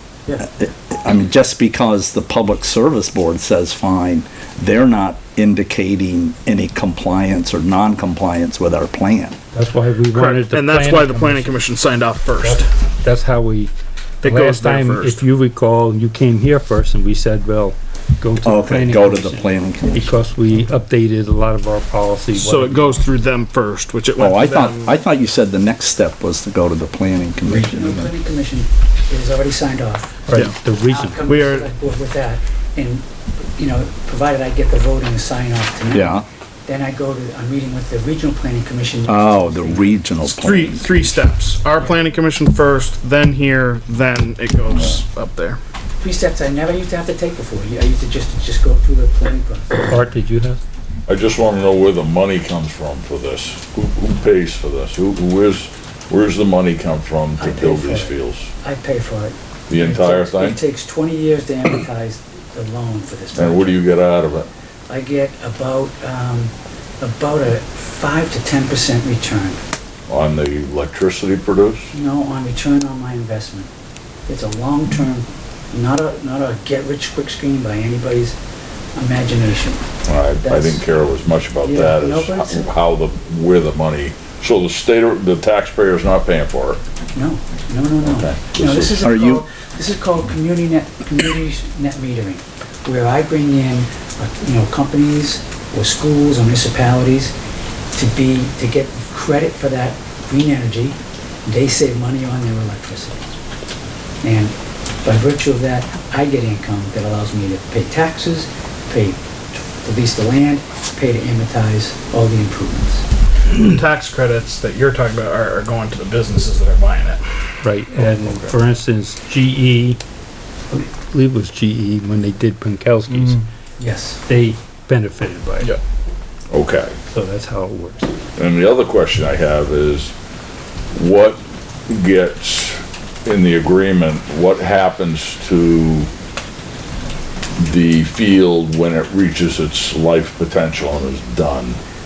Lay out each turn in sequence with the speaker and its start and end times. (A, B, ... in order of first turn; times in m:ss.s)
0:00.4-0:09.4 A
0:09.5-0:11.6 B
0:10.1-0:12.7 C
0:12.4-0:22.9 B
0:14.2-0:15.2 C
0:18.4-0:20.1 A
0:22.3-0:25.0 C
0:24.2-0:28.1 A
0:27.4-0:30.3 D
0:30.3-0:31.2 B
0:30.8-0:33.0 D
0:31.2-0:31.7 C
0:33.6-0:39.9 D
0:35.9-0:36.2 A
0:39.1-0:41.2 A
0:40.2-0:45.6 C
0:46.0-0:49.9 D
0:49.8-0:50.6 B
0:51.1-0:58.5 E
0:57.4-1:03.8 D
0:59.7-1:00.6 E
1:03.3-1:04.5 E
1:04.9-1:09.6 D
1:10.1-1:11.9 E
1:11.9-1:13.7 D
1:14.3-1:18.4 D
1:19.0-1:19.8 D
1:20.0-1:26.8 E
1:20.4-1:20.8 D
1:21.6-1:22.7 D
1:27.1-1:37.3 D
1:28.0-1:29.0 E
1:29.0-1:29.4 A
1:37.9-1:43.2 D
1:44.2-1:53.0 D
1:53.5-1:57.2 C
1:57.6-2:00.0 B
1:58.0-1:58.5 C
2:00.7-2:03.4 B
2:03.1-2:03.4 C
2:03.8-2:04.2 D
2:04.2-2:05.8 B
2:06.5-2:07.0 E
2:07.1-2:08.1 B
2:08.4-2:10.1 E
2:10.9-2:16.1 E
2:17.6-2:21.8 E